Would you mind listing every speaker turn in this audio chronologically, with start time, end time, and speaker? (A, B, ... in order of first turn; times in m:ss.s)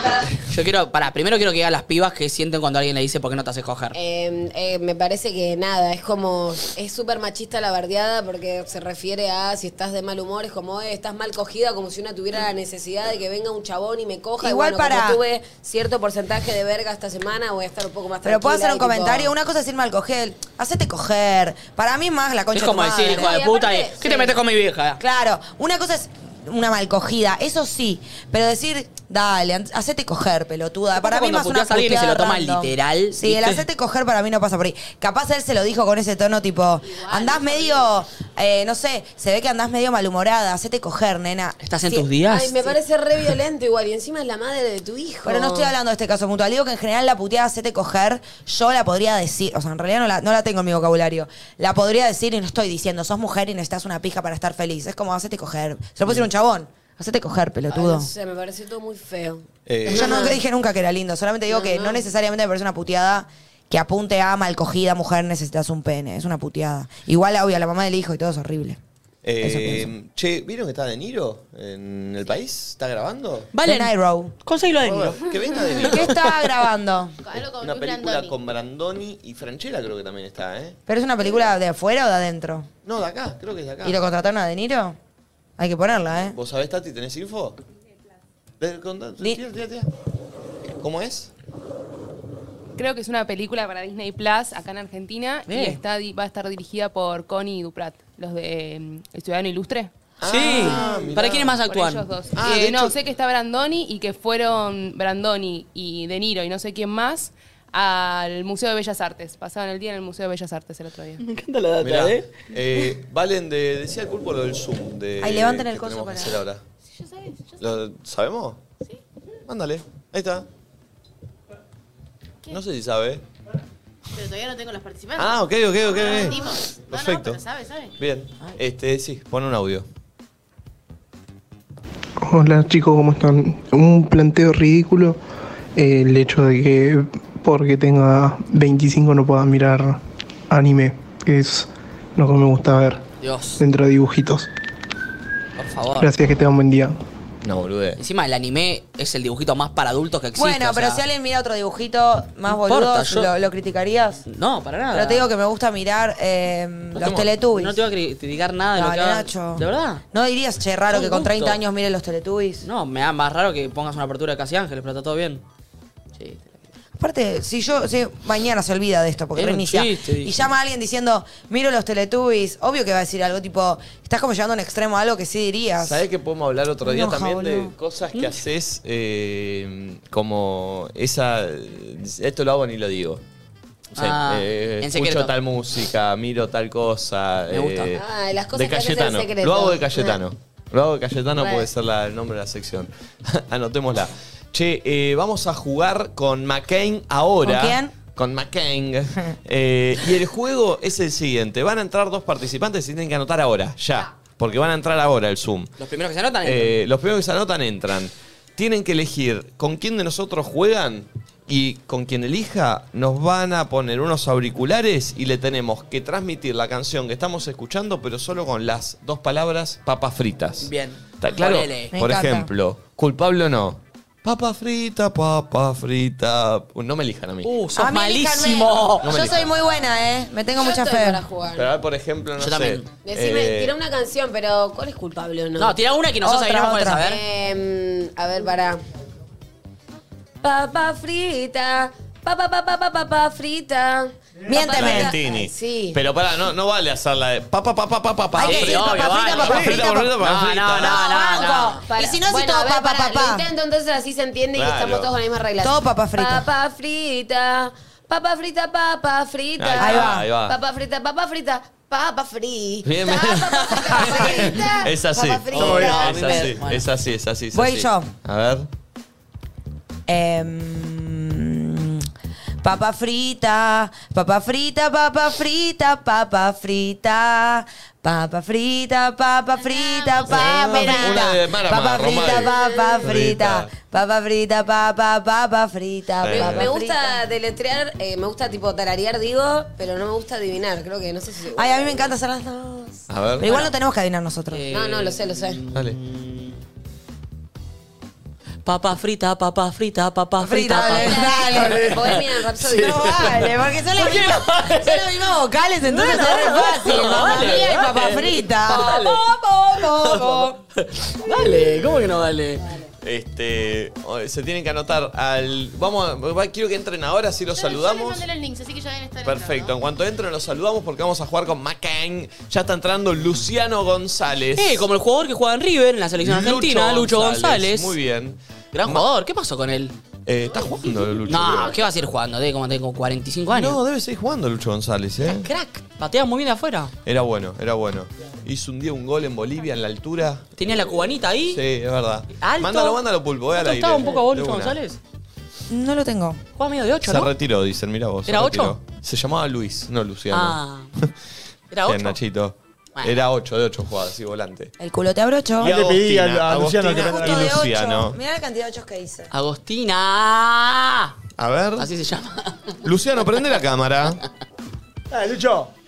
0:00.5-0:04.0 A
0:03.9-0:19.3 B
0:14.4-0:15.2 C
0:18.2-0:23.4 C
0:22.5-0:25.0 A
0:23.1-0:24.4 B
0:25.0-0:42.1 C
0:31.0-0:33.6 A
0:36.9-0:37.8 D
0:41.6-0:42.8 A
0:42.3-0:45.7 B
0:45.2-0:58.1 C
0:57.7-1:00.4 B
0:59.7-1:00.3 E
0:59.9-1:08.8 C
1:01.5-1:02.0 B
1:09.2-1:13.5 E
1:09.4-1:09.9 C
1:13.5-1:13.9 A
1:13.6-1:14.3 C
1:14.4-1:16.3 A
1:14.8-1:16.2 E
1:15.8-1:17.2 C
1:17.2-1:18.4 D
1:17.3-1:20.8 E
1:20.9-1:22.7 C
1:22.8-1:24.0 E
1:23.8-1:25.0 C
1:25.6-1:26.4 C
1:26.2-1:27.6 E
1:28.6-1:29.9 E
1:30.8-1:31.3 E
1:32.8-1:39.9 F
1:35.5-1:35.8 A
1:40.2-1:41.6 E
1:40.2-1:42.1 A
1:40.5-1:41.0 F
1:41.6-1:51.2 F
1:42.4-1:42.9 E
1:51.2-1:52.3 A
1:51.8-1:56.6 E
1:55.2-1:56.4 C
1:57.0-1:57.6 D
1:57.6-1:58.6 E
1:59.5-2:00.5 E
2:02.5-2:03.2 E
2:04.1-2:08.0 D
2:05.2-2:07.4 E
2:08.0-2:09.9 E
2:12.2-2:15.2 G
2:15.8-2:23.0 G
2:23.2-2:23.6 A
2:23.6-2:24.5 G
2:25.6-2:26.1 A
2:26.0-2:27.0 G
2:27.4-2:28.0 E
2:28.0-2:31.0 A
2:30.4-2:34.2 C
2:32.5-2:33.3 A
2:34.3-2:35.3 A
2:34.9-2:37.8 C
2:37.0-2:37.3 E
2:37.5-2:40.0 A
2:38.8-2:42.6 C
2:40.9-2:41.6 A
2:42.6-2:45.4 A
2:46.2-2:46.6 A
2:47.0-2:56.0 C
2:49.4-2:50.4 A
2:55.8-3:03.2 E
2:56.8-2:57.7 C
3:04.0-3:05.3 A
3:04.0-3:25.7 E
3:07.5-3:08.0 A
3:08.0-3:10.2 B
3:11.4-3:11.7 B
3:17.4-3:17.9 C
3:25.8-3:26.8 A
3:26.4-3:47.5 E
3:40.6-3:42.0 A
3:41.9-3:42.5 C
3:47.4-3:49.3 A
3:47.7-3:51.2 C
3:49.0-3:49.4 E
3:50.6-3:51.7 B
3:51.6-3:53.8 E
3:52.4-3:52.9 A
3:53.0-3:55.8 B
3:55.6-3:57.2 A
3:56.2-3:57.0 C
3:57.0-3:58.8 B
4:00.4-4:06.0 B
4:04.5-4:05.2 C
4:04.7-4:11.0 E
4:08.4-4:10.2 C
4:08.4-4:11.8 A
4:10.7-4:13.4 C
4:11.8-4:26.4 B
4:14.5-4:15.2 E
4:15.6-4:16.5 C
4:19.6-4:20.6 E
4:19.8-4:20.3 C
4:22.8-4:28.7 E
4:24.0-4:24.7 C
4:25.5-4:26.9 A
4:27.5-4:28.1 C
4:30.1-4:32.1 C
4:32.6-4:47.2 C
4:39.6-4:41.2 D
4:40.4-4:43.7 E
4:42.2-4:43.0 B
4:46.2-4:46.7 E
4:46.3-4:52.1 B
4:51.6-4:54.7 C
4:53.1-4:53.6 E
4:54.5-4:56.6 A
4:54.7-4:55.6 B
4:58.6-5:02.2 A
5:00.4-5:10.6 C
5:00.7-5:03.4 B
5:03.4-5:05.3 A
5:05.9-5:12.7 A
5:13.0-5:18.2 E
5:17.6-5:19.8 D
5:19.2-5:24.9 E
5:24.6-5:28.0 A
5:26.2-5:29.0 E
5:28.7-5:30.0 A
5:30.3-5:31.8 E
5:31.3-5:33.8 A
5:33.5-5:35.5 E
5:35.2-5:36.9 A
5:37.0-5:44.8 E
5:40.6-5:41.6 A
5:42.4-5:45.0 A
5:45.7-5:46.4 C
5:46.6-5:47.3 A
5:47.0-5:51.1 E
5:48.3-5:48.8 A
5:50.3-5:50.9 A
5:51.7-5:52.2 A
5:51.8-5:54.7 E
5:54.8-5:55.7 C
5:55.6-5:57.7 H
5:55.6-5:58.2 E
5:56.8-5:59.3 C
5:59.3-6:01.2 A
6:01.4-6:01.9 E
6:01.8-6:02.8 A
6:02.8-6:04.2 E
6:05.1-6:05.7 H